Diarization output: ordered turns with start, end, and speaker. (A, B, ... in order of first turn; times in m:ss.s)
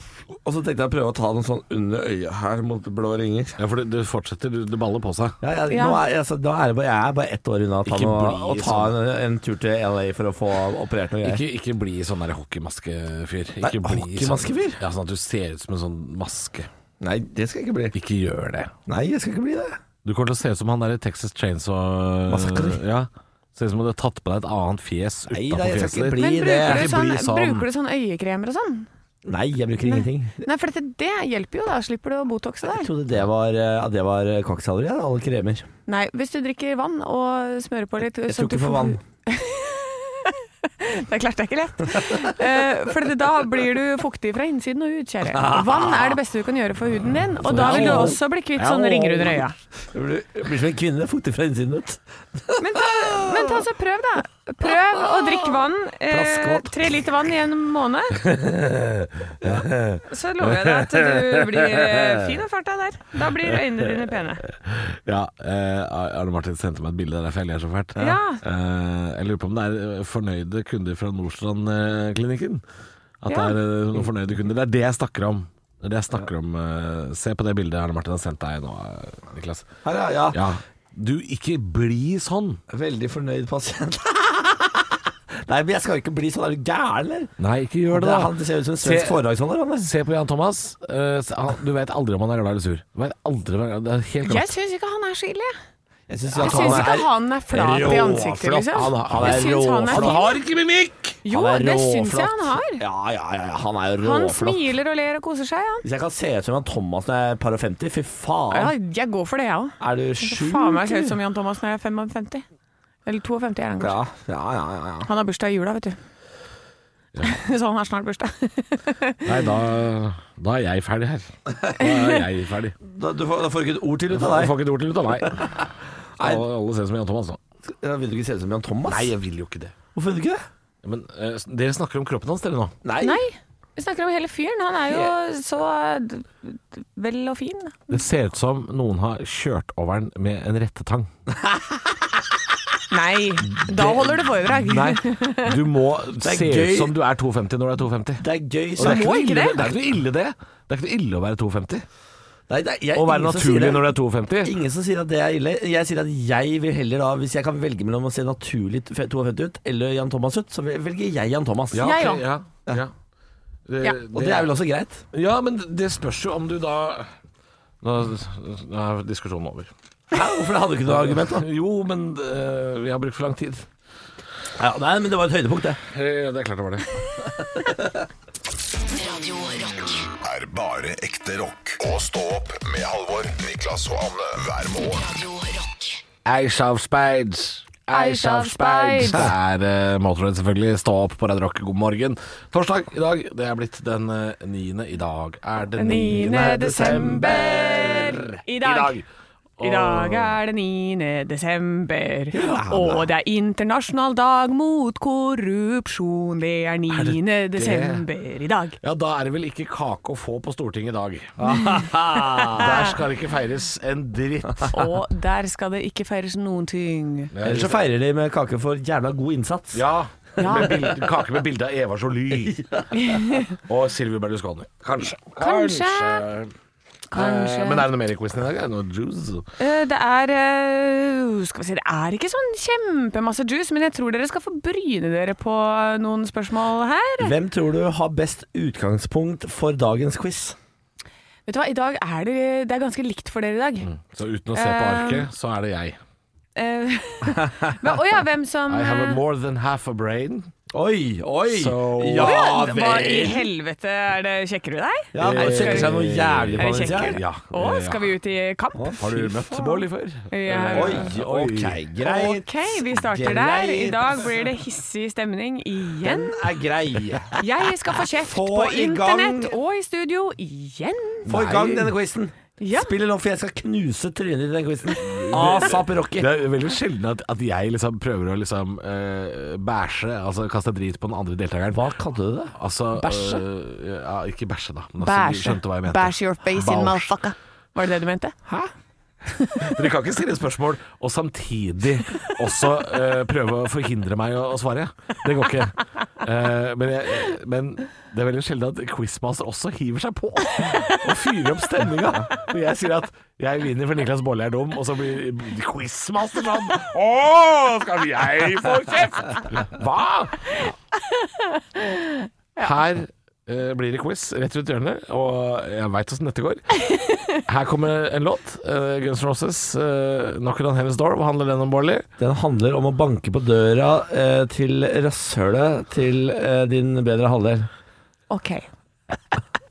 0:00.3-0:03.6 A
0:03.6-0:05.4 B
0:05.4-0:11.4 A
0:05.7-0:06.0 C
0:07.8-0:09.0 B
0:11.2-0:16.7 B
0:13.6-0:14.8 A
0:17.0-0:18.0 A
0:17.9-0:18.7 B
0:18.9-0:19.8 A
0:20.0-0:27.6 B
0:22.3-0:22.8 A
0:25.3-0:26.9 A
0:26.2-0:28.9 C
0:29.2-0:30.4 A
0:29.8-0:32.9 C
0:32.7-0:35.7 A
0:35.9-0:49.6 C
0:38.3-0:39.0 A
0:45.3-0:46.2 A
0:47.4-0:48.2 A
0:47.5-0:49.4 B
0:49.9-0:53.6 A
0:52.6-0:58.2 C
0:54.9-0:55.4 A
0:56.1-0:56.8 A
0:58.2-1:02.0 B
0:59.4-0:59.7 A
1:00.0-1:04.4 C
1:04.6-1:12.6 B
1:08.0-1:08.4 C
1:13.2-1:19.7 B
1:13.3-1:13.6 C
1:19.8-1:20.4 A
1:20.3-1:22.6 B
1:22.7-1:27.3 A
1:27.4-1:29.2 B
1:27.9-1:29.9 A
1:29.8-1:34.5 B
1:34.2-1:35.6 C
1:36.1-1:40.2 A
1:36.3-1:40.4 C
1:36.4-1:37.0 B
1:37.6-1:38.1 B
1:38.7-1:41.2 B
1:41.2-1:42.8 C
1:41.3-1:44.6 A
1:44.0-1:45.8 C
1:45.8-1:48.7 A
1:48.5-1:52.4 C
1:49.8-1:51.2 A
1:53.0-1:54.0 C
1:53.8-1:55.1 A
1:55.0-1:56.0 C
1:57.2-1:59.2 C
1:59.2-2:02.8 B
2:02.8-2:04.6 A
2:04.1-2:05.6 B
2:06.2-2:07.4 B
2:06.2-2:06.4 A
2:07.7-2:09.1 A
2:08.9-2:09.8 B
2:10.0-2:10.4 A
2:10.8-2:12.8 B
2:12.8-2:13.2 A
2:13.0-2:18.0 C
2:17.9-2:21.1 B
2:21.3-2:22.0 A
2:22.9-2:25.6 C
2:23.6-2:24.2 A
2:24.6-2:28.3 B
2:26.2-2:27.0 A
2:28.2-2:29.8 A
2:28.8-2:31.8 B
2:28.8-2:29.7 C
2:32.5-2:33.9 A
2:33.0-2:34.6 B
2:34.4-2:42.2 A
2:41.7-2:42.9 B
2:41.8-2:42.2 C
2:43.7-2:44.5 B
2:44.1-2:45.0 A
2:45.1-2:47.1 B
2:47.8-2:49.7 B
2:50.1-2:51.5 A
2:50.9-2:53.7 B
2:54.6-2:55.8 A
2:55.9-2:56.9 B
2:57.6-2:58.1 A
2:58.9-3:00.1 D
3:00.2-3:05.1 E
3:04.9-3:06.0 D
3:06.2-3:19.0 B
3:07.9-3:09.3 C
3:15.8-3:19.0 C
3:16.0-3:18.3 A
3:19.6-3:20.4 B
3:19.6-3:28.8 C
3:22.3-3:23.1 A
3:26.9-3:28.0 B
3:28.8-3:31.4 B
3:31.4-3:33.0 A
3:32.5-3:34.9 B
3:32.6-3:32.9 C
3:34.7-3:37.3 C
3:37.3-3:37.8 B
3:37.4-3:39.8 A
3:39.7-3:42.6 B
3:40.4-3:40.9 C
3:40.4-3:40.9 A
3:42.3-3:43.2 A
3:42.9-3:43.5 C
3:43.6-3:46.5 B
3:45.4-3:46.3 C
3:47.1-3:47.9 C
3:47.1-3:49.5 B
3:49.6-3:57.3 C
3:57.2-4:00.6 A
4:01.5-4:03.9 C
4:03.8-4:06.0 B
4:04.5-4:05.3 C
4:06.6-4:09.2 C
4:07.3-4:07.7 A
4:08.7-4:10.5 B
4:10.7-4:13.5 A
4:11.5-4:12.5 B
4:12.2-4:16.0 C
4:15.1-4:17.2 A
4:15.2-4:18.1 B
4:16.6-4:19.8 C
4:18.8-4:19.5 A
4:19.0-4:21.8 B
4:20.3-4:21.1 C
4:20.7-4:24.2 A
4:22.0-4:26.5 C
4:26.0-4:27.4 A
4:27.4-4:31.4 C
4:28.2-4:29.6 A
4:31.3-4:31.9 B
4:31.3-4:36.3 A
4:32.6-4:32.9 C
4:35.0-4:41.8 B
4:41.7-4:43.4 A
4:42.6-4:47.2 B
4:45.0-4:48.4 C
4:49.3-4:49.7 C
4:49.6-5:10.7 B
5:11.1-5:12.7 C
5:12.6-5:16.8 B
5:16.9-5:17.2 C
5:17.4-5:22.1 B
5:22.2-5:27.7 A
5:28.3-5:28.7 C